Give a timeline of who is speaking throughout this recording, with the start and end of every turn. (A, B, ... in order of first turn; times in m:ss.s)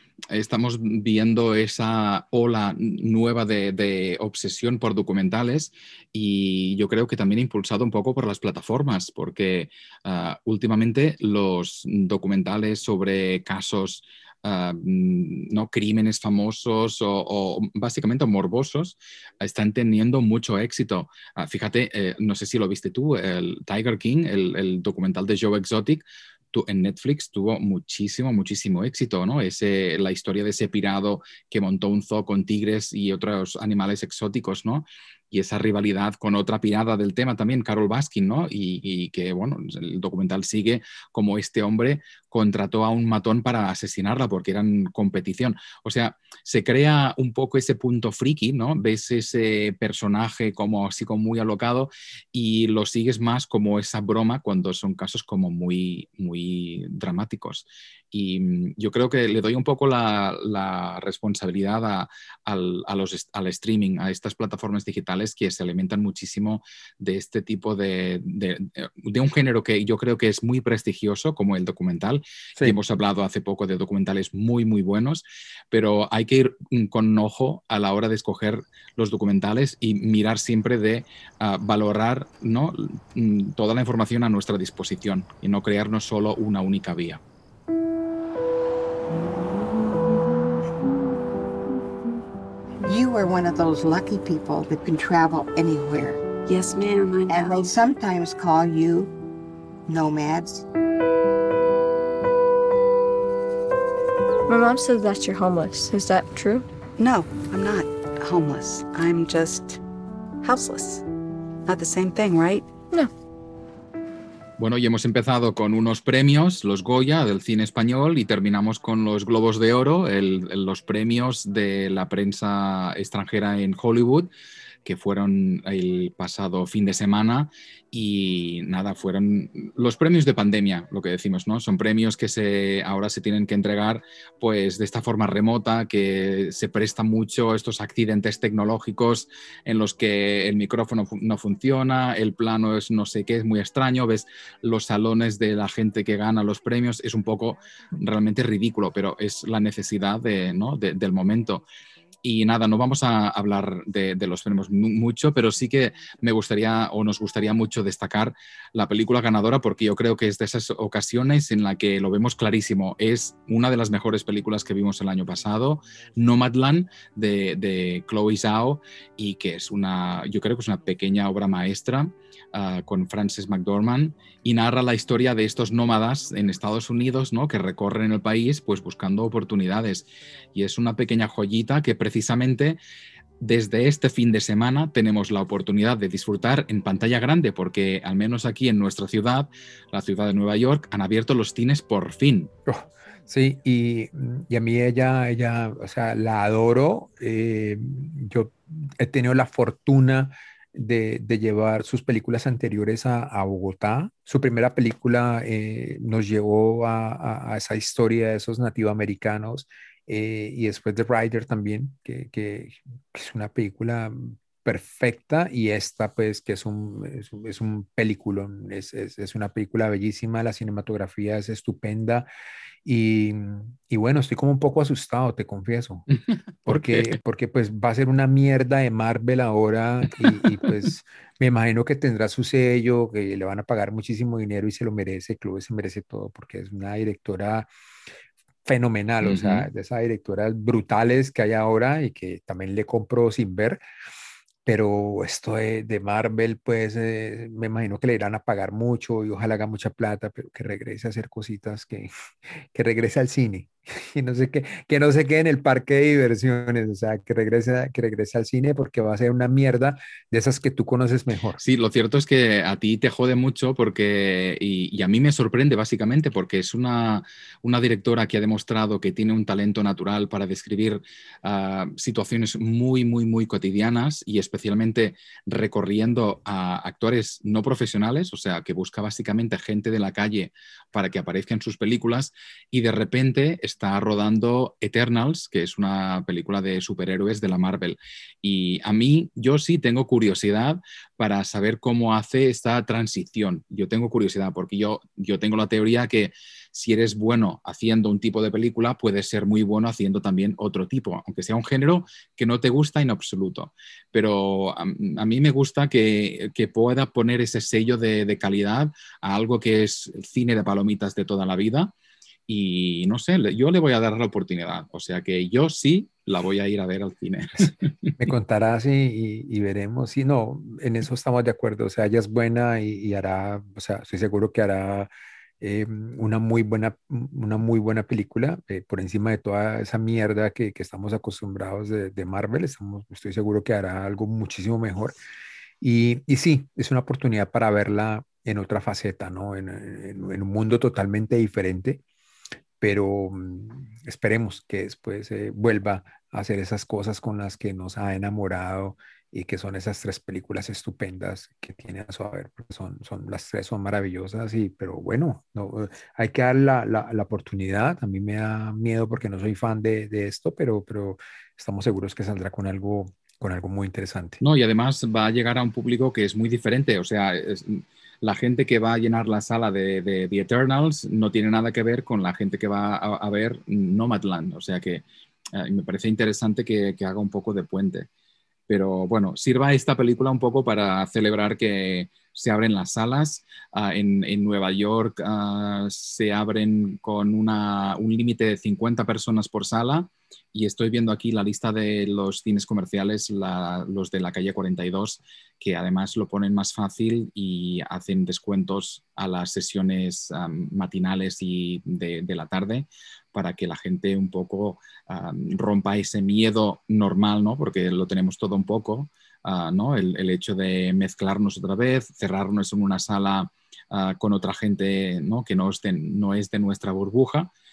0:00.3-1:27.2 A
1:33.2-1:36.1 B
1:36.4-1:37.9 C
1:37.7-1:39.0 B
1:39.9-1:40.4 B
1:44.5-1:46.6 D
1:47.0-1:49.8 C
1:50.4-1:51.0 C
1:51.6-1:52.7 C
1:54.6-2:04.3 A
2:04.8-2:31.6 A
2:32.2-3:02.8 A
3:03.4-3:12.5 A
3:12.7-3:42.3 E
3:42.8-3:46.0 E
3:46.6-3:47.1 A
3:46.6-3:57.7 E
3:58.6-4:03.8 E
3:59.2-3:59.7 A
4:04.6-4:21.6 E
4:21.6-5:11.9 A
5:12.5-5:17.9 A
5:18.2-5:25.1 E
5:25.6-5:35.1 E
5:35.8-5:42.0 E
5:42.8-6:04.4 E
6:04.4-6:18.1 A
6:18.7-6:57.5 A